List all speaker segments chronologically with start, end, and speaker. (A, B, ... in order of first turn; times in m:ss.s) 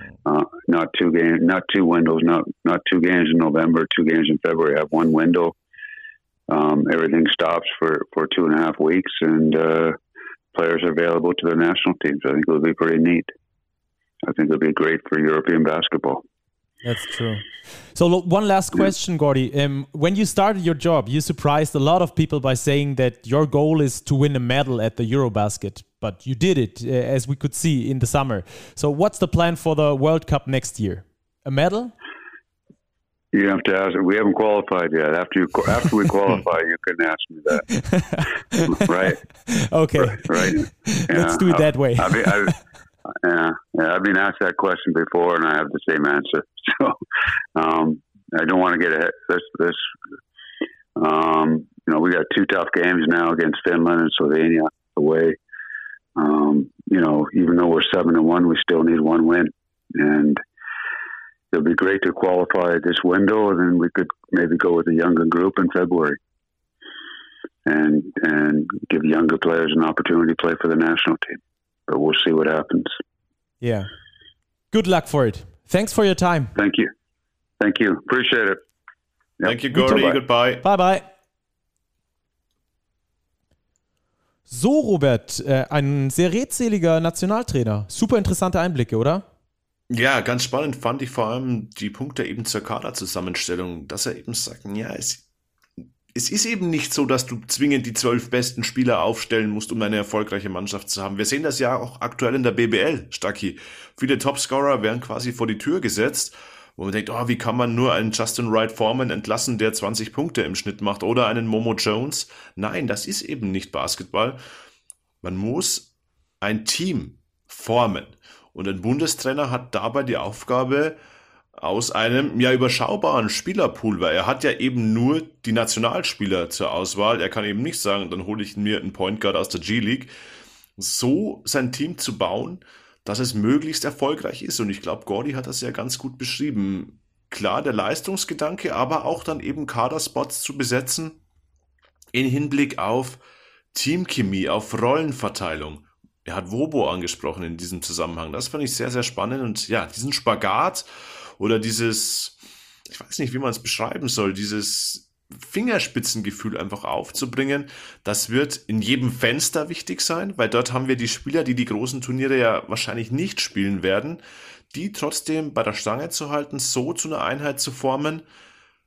0:00.2-0:05.6 A
0:06.5-0:10.0 A
0:10.5-0:13.3 A
0:14.2-0:16.2 A
0:16.8-0:31.9 B
0:33.3-0:37.7 A
0:37.7-0:38.9 B
0:38.7-0:39.2 A
0:39.5-0:42.6 B
0:40.0-0:47.0 A
0:47.6-0:49.9 A
0:51.0-0:55.4 A
0:56.2-1:00.4 A
1:01.5-1:06.2 A
1:07.6-1:12.9 A
1:13.6-1:13.9 B
1:14.7-1:16.5 B
1:16.6-1:16.9 A
1:17.6-1:18.6 A
1:19.4-1:20.2 A
1:19.4-1:20.6 C
1:19.7-1:21.0 B
1:24.5-1:29.2 B
1:29.9-1:35.2 C
1:36.1-1:54.4 C
1:55.2-1:55.9 C
1:56.4-2:01.0 C
2:01.6-2:10.1 C
2:10.8-2:21.2 C
2:22.1-2:23.2 C
2:23.7-2:30.9 C
2:31.4-2:32.4 C
2:32.9-2:44.2 C
2:44.7-2:48.2 C